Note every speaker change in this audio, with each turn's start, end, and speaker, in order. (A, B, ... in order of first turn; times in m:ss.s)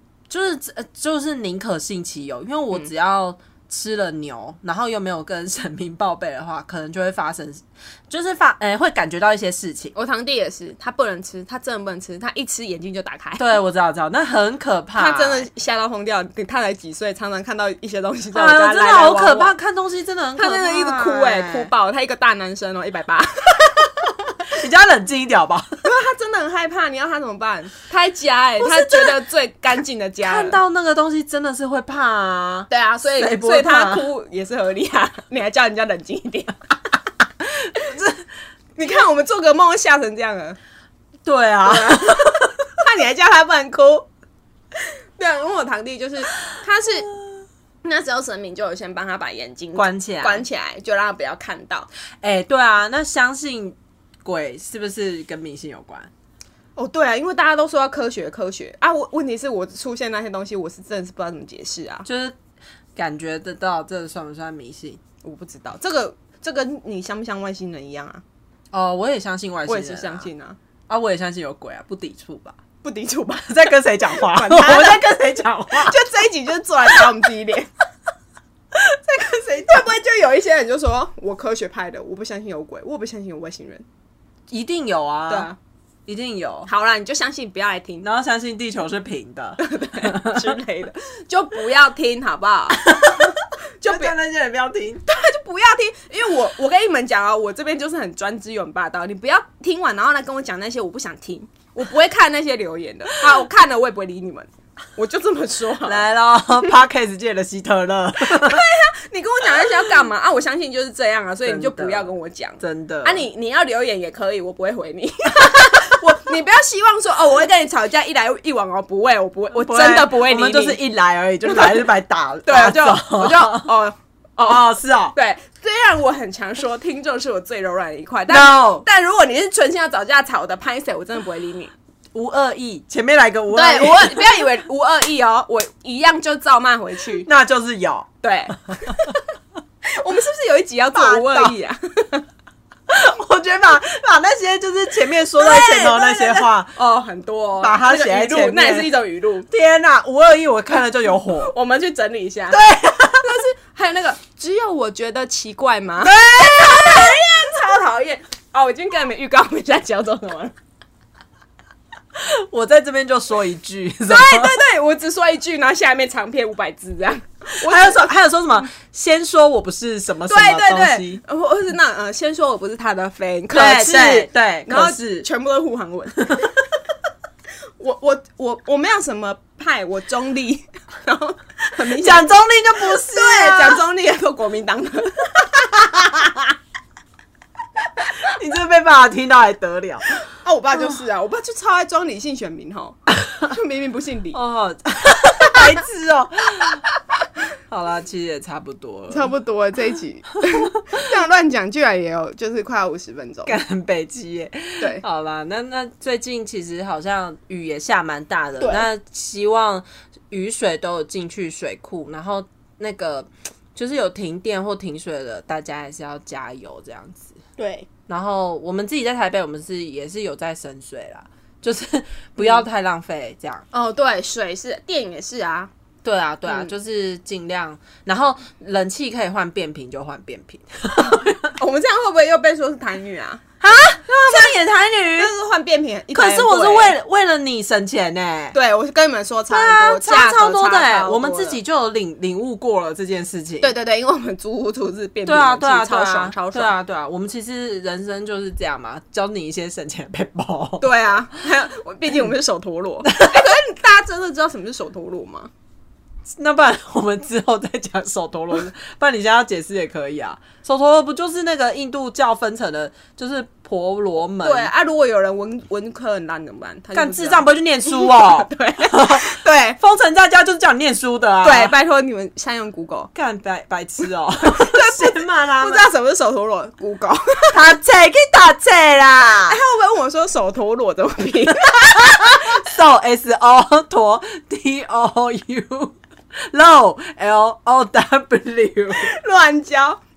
0:00.3-0:09.9 A
0:09.9-0:13.5 B
0:13.4-0:15.4 A
0:14.9-0:19.5 B
0:18.3-0:21.7 A
0:20.4-0:24.1 B
0:24.4-0:25.8 A
0:25.8-0:30.6 B
0:28.6-0:29.2 A
0:30.2-0:34.0 A
0:32.7-0:36.5 B
0:37.7-0:38.0 B
0:37.8-0:38.1 A
0:38.8-0:40.6 B
0:41.2-0:42.6 A
0:41.6-0:44.0 B
0:45.2-0:47.1 B
0:47.8-0:51.9 B
0:49.8-0:50.4 A
0:52.2-0:56.1 A
0:56.8-1:02.1 B
1:02.0-1:02.4 A
1:02.9-1:05.0 A
1:05.2-1:08.2 B
1:08.7-1:10.2 A
1:09.7-1:10.6 B
1:10.9-1:12.6 A
1:12.8-1:15.2 B
1:13.4-1:16.0 A
1:15.7-1:17.7 B
1:18.7-1:23.8 B
1:24.5-1:25.5 A
1:25.3-1:25.6 B
1:26.1-1:26.7 A
1:26.7-1:28.0 B
1:28.0-1:30.6 A
1:29.6-1:34.1 B
1:32.7-1:35.0 A
1:35.0-1:46.0 B
1:45.8-1:48.6 A
1:48.2-2:00.8 B
1:51.4-1:53.3 A
1:59.5-2:03.7 A
2:01.4-2:01.8 B
2:02.4-2:11.7 B
2:04.4-2:05.2 A
2:08.3-2:08.8 A
2:12.1-2:14.4 A
2:13.5-2:17.3 B
2:17.2-2:19.2 A
2:18.2-2:19.2 B
2:19.8-2:22.2 B
2:20.9-2:21.6 A
2:22.9-2:26.8 A
2:25.3-2:29.5 B
2:27.6-2:28.9 A
2:29.5-2:31.5 A
2:31.3-2:32.6 B
2:32.5-2:33.4 A
2:33.2-2:40.5 B
2:36.0-2:37.2 A
2:42.1-2:44.6 A
2:44.0-2:48.1 B
2:47.6-2:51.2 A
2:50.3-2:56.5 B
2:53.5-2:55.3 A
2:57.8-3:06.4 B
3:01.9-3:03.8 A
3:08.1-3:10.2 A
3:10.3-3:14.4 B
3:14.3-3:16.8 A
3:17.7-3:19.3 A
3:19.1-3:23.6 B
3:23.4-3:37.4 A
3:28.6-3:28.8 B
3:37.6-3:37.9 B
3:38.1-3:43.6 A
3:42.4-3:42.6 B
3:43.7-3:45.7 B
3:46.0-3:51.5 A
3:46.4-3:46.7 B
3:51.0-3:53.4 B
3:53.6-3:55.3 A
3:54.2-3:54.6 B
3:55.2-3:56.9 B
3:56.1-3:58.5 A
3:58.5-4:01.6 B
3:59.5-4:03.7 A
4:03.6-4:06.7 B
4:05.2-4:10.9 A
4:10.8-4:15.5 B
4:13.1-4:13.5 A
4:16.3-4:24.7 A
4:24.4-4:29.8 B
4:26.9-4:31.7 A
4:31.4-4:33.1 B
4:33.1-4:35.9 A
4:34.4-4:37.6 B
4:37.5-4:39.6 A
4:39.4-4:42.6 B
4:41.9-4:49.1 A
4:48.9-4:50.0 B